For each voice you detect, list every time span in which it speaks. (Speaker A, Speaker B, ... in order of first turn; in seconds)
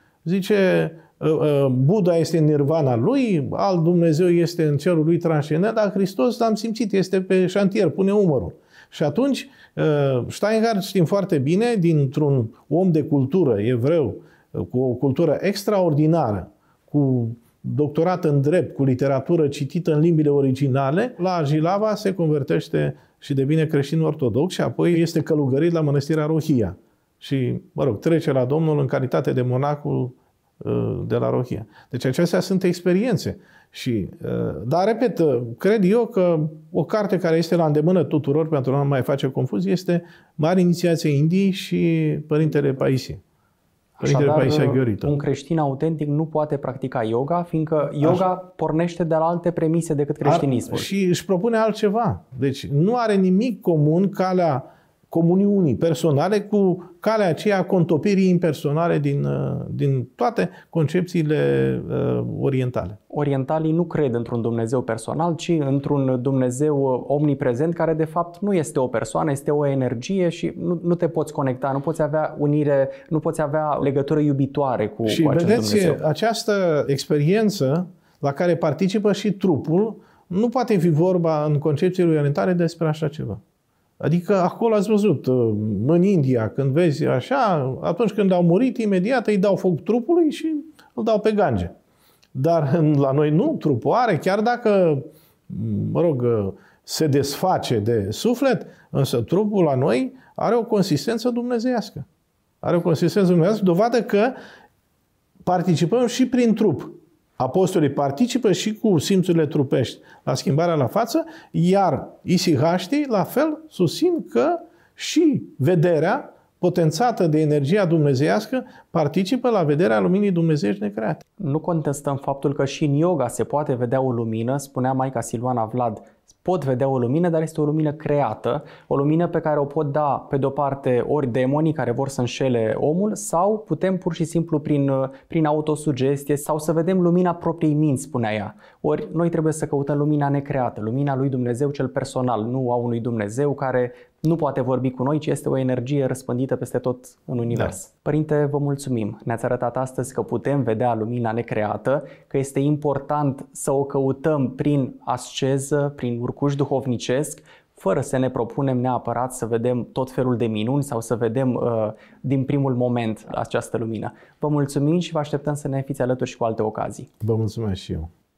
Speaker A: 0.2-43.2, 44.0-45.1, 50.2-63.0, 75.1-83.4, 84.0-91.7, 92.3-102.1, 102.6-104.4, 105.4-121.2, 167.2-168.1
Speaker B: 44.0-50.9, 63.1-76.0, 121.4-167.1